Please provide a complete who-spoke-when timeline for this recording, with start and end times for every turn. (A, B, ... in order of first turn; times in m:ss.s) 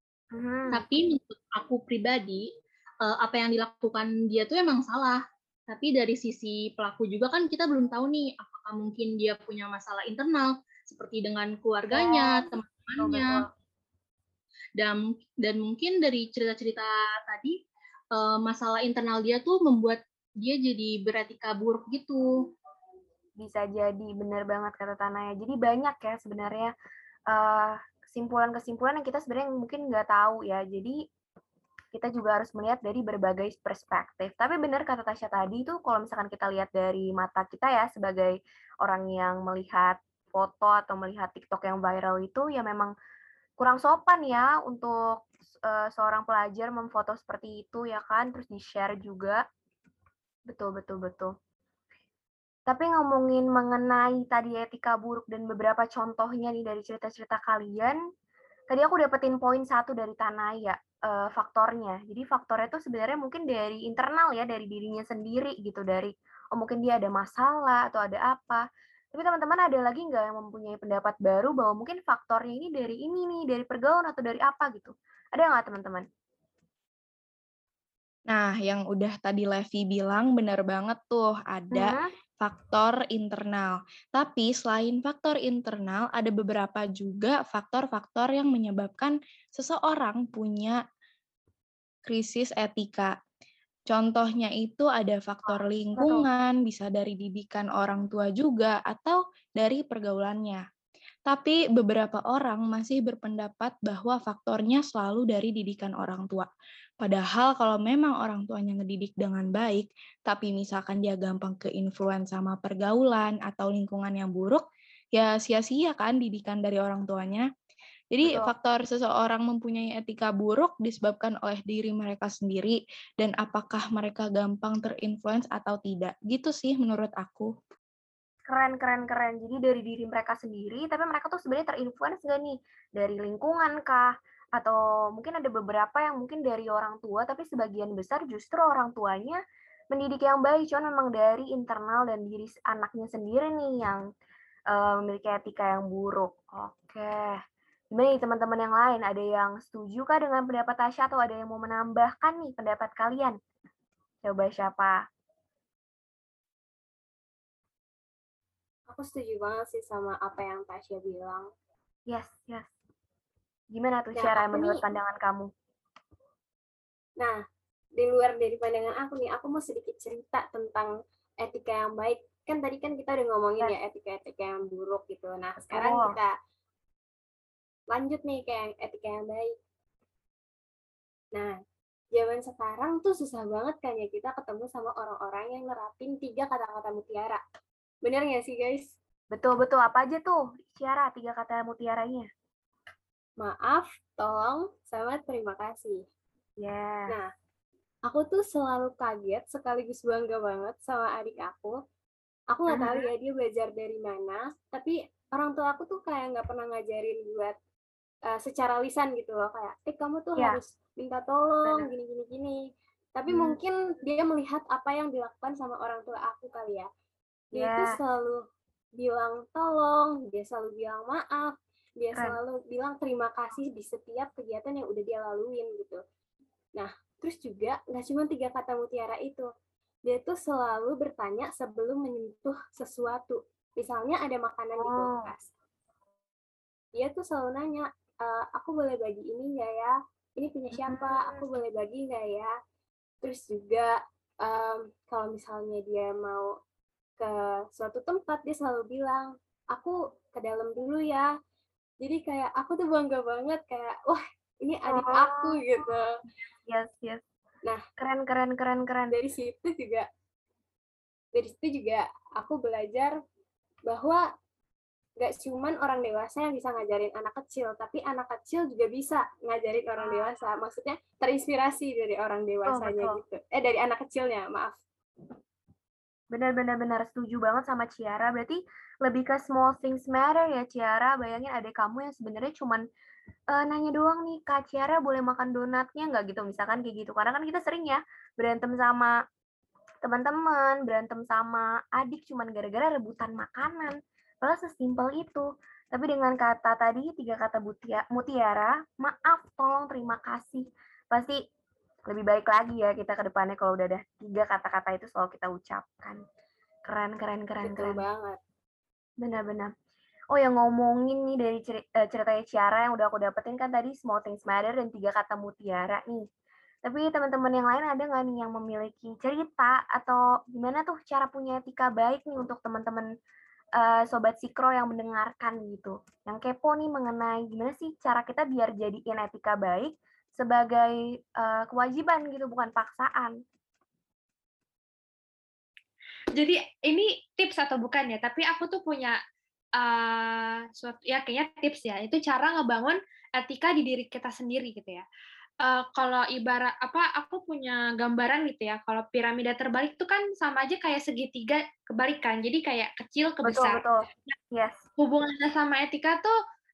0:00.3-0:00.8 A
0:00.7-0:02.4 B
0:03.0-0:13.4 B
0:11.9-0:13.5 A
0:14.8-0:17.6 B
0:18.1-0:22.3 B
0:23.4-0:26.7 A
0:27.3-0:31.0 A
0:31.9-0:42.9 A
0:43.6-0:49.4 A
0:50.5-0:51.3 A
0:52.7-0:58.0 A
0:58.7-1:16.1 A
1:18.3-1:30.8 C
1:21.7-1:22.1 A
1:32.1-1:33.1 C
1:33.9-1:40.6 C
1:35.5-1:36.3 A
1:41.3-1:46.5 C
1:47.0-1:57.5 C
1:58.1-2:07.5 C
1:58.2-1:58.5 A
2:08.5-2:19.4 A
2:19.9-2:24.0 A
2:24.7-2:27.4 A
2:27.9-2:33.4 A
2:34.2-2:35.0 A
2:38.9-2:41.5 D
2:42.1-2:42.7 A
2:43.7-2:45.5 A
2:44.1-2:44.8 D
2:48.0-2:56.3 D
2:55.7-2:56.2 A
2:57.9-2:59.5 D
3:02.1-3:07.4 D
3:08.0-3:08.9 D
3:09.3-3:12.3 A
3:13.4-3:16.0 D
3:16.6-3:17.2 A
3:18.1-3:21.8 D
3:22.5-3:27.6 D
3:22.7-3:23.1 A
3:28.3-3:32.6 D
3:33.2-3:36.9 D
3:33.3-3:33.6 A
3:37.5-3:38.4 D
3:37.5-3:38.0 A
3:39.0-3:46.0 D
3:42.1-3:42.4 A
3:46.8-3:49.5 D
3:50.1-3:55.5 D
3:54.8-3:55.3 A
3:57.0-4:02.5 D
4:00.7-4:01.4 A
4:03.2-4:06.5 D
4:07.2-4:11.3 D
4:12.0-4:16.1 D
4:14.9-4:15.6 A
4:16.7-4:17.2 A
4:18.0-4:19.2 A
4:19.1-4:20.1 D
4:21.3-4:23.1 D
4:23.9-4:24.2 D
4:25.2-4:34.8 D
4:30.0-4:30.3 A
4:32.7-4:33.2 A
4:36.3-4:42.8 A
4:43.5-4:49.1 A
4:50.0-5:01.4 A
5:02.1-5:06.2 A
5:06.9-5:08.0 A
5:07.6-5:08.4 D
5:09.2-5:09.7 A
5:10.3-5:16.3 A
5:16.8-5:23.1 A
5:23.8-5:33.4 A
5:36.4-5:39.2 E
5:39.8-5:45.0 E
5:45.6-5:54.3 E
5:53.4-5:54.8 A
5:55.0-5:56.3 E